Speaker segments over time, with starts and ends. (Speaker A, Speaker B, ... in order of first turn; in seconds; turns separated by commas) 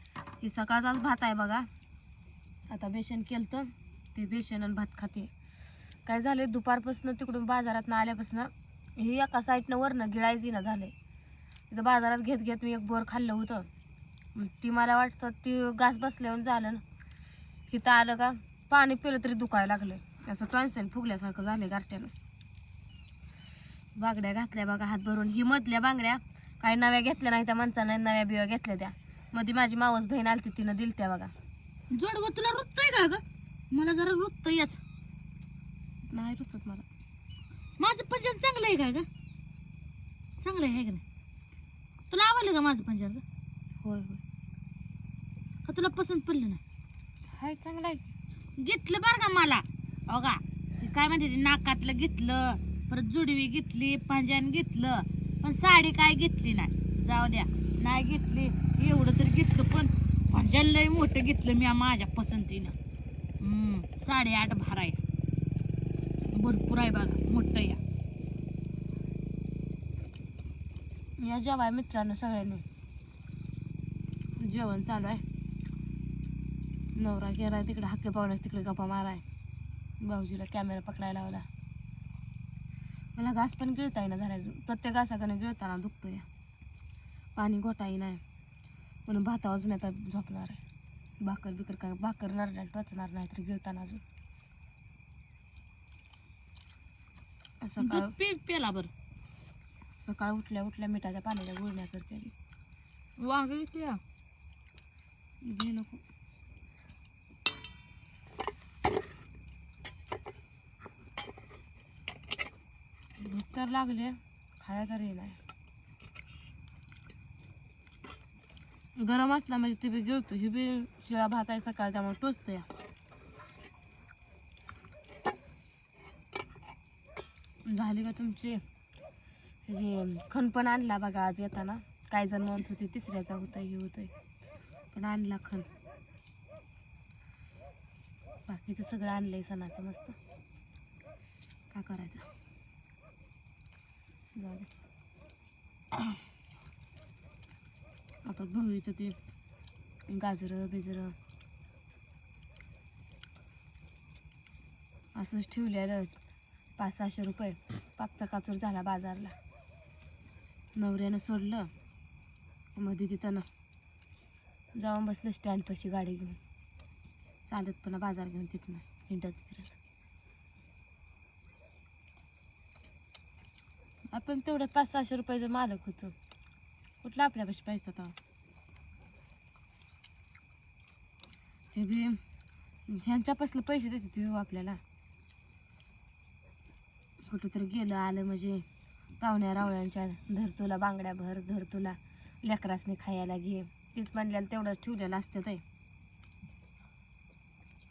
Speaker A: 0.4-1.7, Speaker A: 2.7-5.3, Speaker A: 6.1-10.9, Speaker A: 11.7-13.7, Speaker A: 14.3-16.8, Speaker A: 17.7-22.1, Speaker A: 24.0-31.3, Speaker B: 31.9-34.8, Speaker A: 36.1-36.9, Speaker B: 37.8-39.1, Speaker B: 40.4-41.0, Speaker B: 42.1-43.2, Speaker A: 43.8-44.2, Speaker B: 45.6-46.6, Speaker A: 47.3-48.1, Speaker B: 48.6-62.8, Speaker B: 63.4-65.0, Speaker B: 66.3-67.8, Speaker A: 71.2-72.6, Speaker A: 74.4-75.2, Speaker A: 77.0-79.2, Speaker A: 80.0-81.5, Speaker A: 83.2-86.3, Speaker A: 87.4-88.2, Speaker A: 89.1-90.6, Speaker A: 91.2-94.0, Speaker A: 97.6-98.1, Speaker B: 97.8-98.9, Speaker A: 100.0-102.3, Speaker B: 103.2-104.0, Speaker A: 105.4-106.0, Speaker A: 113.2-115.4, Speaker A: 119.0-122.7, Speaker A: 127.7-128.6, Speaker A: 129.7-134.1, Speaker A: 134.9-135.7, Speaker A: 138.5-140.2, Speaker A: 141.7-142.3, Speaker A: 144.3-144.7, Speaker A: 148.2-149.2, Speaker A: 150.1-151.2, Speaker A: 155.2-156.2, Speaker A: 156.8-159.3, Speaker A: 160.8-161.7, Speaker A: 162.8-163.5, Speaker A: 164.8-166.4, Speaker A: 167.5-169.8, Speaker A: 174.1-176.2, Speaker A: 177.0-178.2, Speaker A: 181.7-182.2, Speaker A: 182.9-184.8, Speaker A: 187.3-188.7, Speaker A: 189.2-195.6